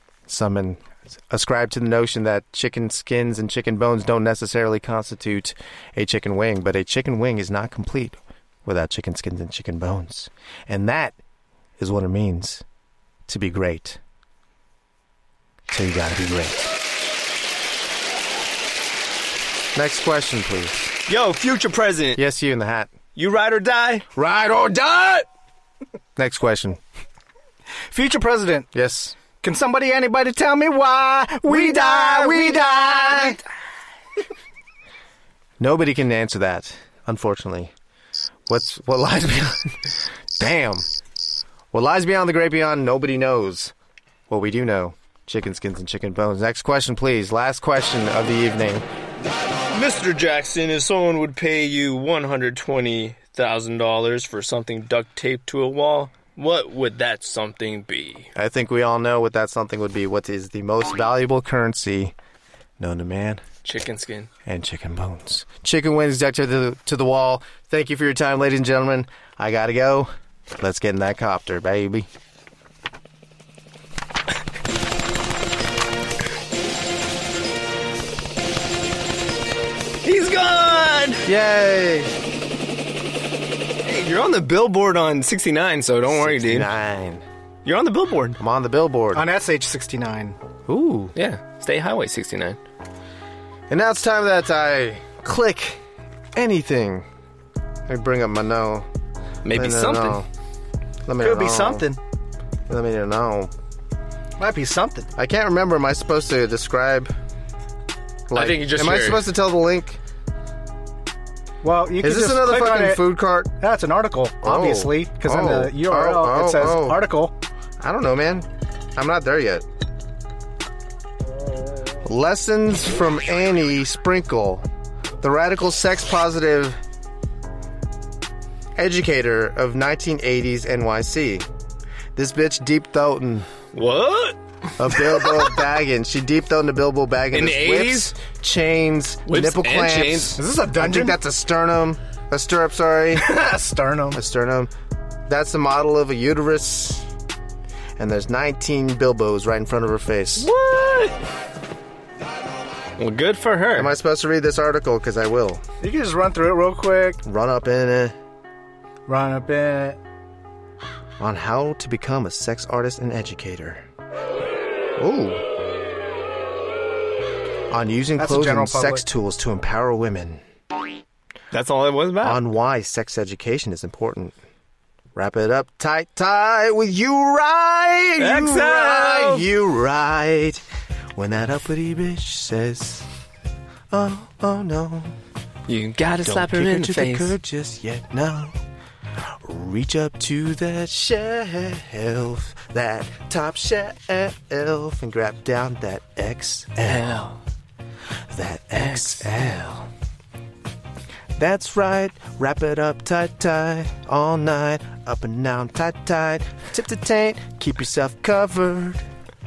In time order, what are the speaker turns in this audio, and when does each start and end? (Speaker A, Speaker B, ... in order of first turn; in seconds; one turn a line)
Speaker A: 0.3-11.2
Speaker A: 11.8-12.6
Speaker A: 13.3-14.0
Speaker A: 15.7-16.6
Speaker A: 19.7-20.9
Speaker B: 21.1-22.2
Speaker A: 22.1-22.9
Speaker B: 23.1-24.1
Speaker A: 24.1-25.3
Speaker A: 26.1-26.8
Speaker C: 27.9-28.7
Speaker A: 28.7-29.1
Speaker C: 29.4-33.4
Speaker A: 31.5-33.4
Speaker A: 35.6-37.7
Speaker A: 38.5-40.9
Speaker A: 41.7-43.7
Speaker A: 44.3-48.9
Speaker B: 49.7-58.3
Speaker A: 58.3-62.1
Speaker A: 62.8-63.4
Speaker B: 63.6-64.3
Speaker A: 64.5-72.1
Speaker B: 80.0-81.2
Speaker A: 81.2-82.1
Speaker B: 83.8-86.7
Speaker A: 86.1-87.2
Speaker B: 87.6-88.4
Speaker A: 88.4-89.2
Speaker C: 89.1-90.4
Speaker A: 90.7-91.1
Speaker B: 91.2-92.6
Speaker A: 93.7-95.8
Speaker A: 96.3-97.0
Speaker A: 97.9-98.9
Speaker B: 99.4-100.2
Speaker A: 99.5-100.3
Speaker A: 101.0-101.9
Speaker C: 101.2-102.0
Speaker A: 102.7-103.5
Speaker C: 104.4-105.1
Speaker A: 105.2-107.1
Speaker A: 108.3-110.0
Speaker B: 108.3-109.2
Speaker C: 111.6-117.3
Speaker A: 112.0-113.5
Speaker A: 114.4-117.0
Speaker A: 117.8-119.6
Speaker A: 122.0-124.7
Speaker A: 125.2-126.8
Speaker A: 128.8-131.4
Speaker A: 132.2-133.5
Speaker B: 133.7-135.5
Speaker A: 134.8-143.3
Speaker B: 137.3-138.1
Speaker B: 139.2-140.4
Speaker C: 140.4-141.2
Speaker C: 143.1-144.2
Speaker A: 144.1-144.7
Speaker A: 145.3-147.1
Speaker A: 148.0-150.5
Speaker B: 150.4-151.2
Speaker B: 153.0-153.9
Speaker A: 153.7-155.6
Speaker C: 155.8-157.2
Speaker A: 157.2-158.1
Speaker C: 159.1-160.0
Speaker A: 161.2-163.8
Speaker A: 165.0-165.4
Speaker A: 167.7-170.4
Speaker C: 168.2-169.0
Speaker B: 171.5-172.4
Speaker A: 172.2-174.3
Speaker A: 175.1-180.6
Speaker B: 178.2-179.5
Speaker A: 181.2-183.0
Speaker A: 183.9-185.1
Speaker B: 185.7-187.3
Speaker A: 186.2-188.6
Speaker A: 189.4-197.2
Speaker B: 196.8-197.4
Speaker A: 198.3-199.9
Speaker B: 198.8-199.3
Speaker A: 201.3-209.0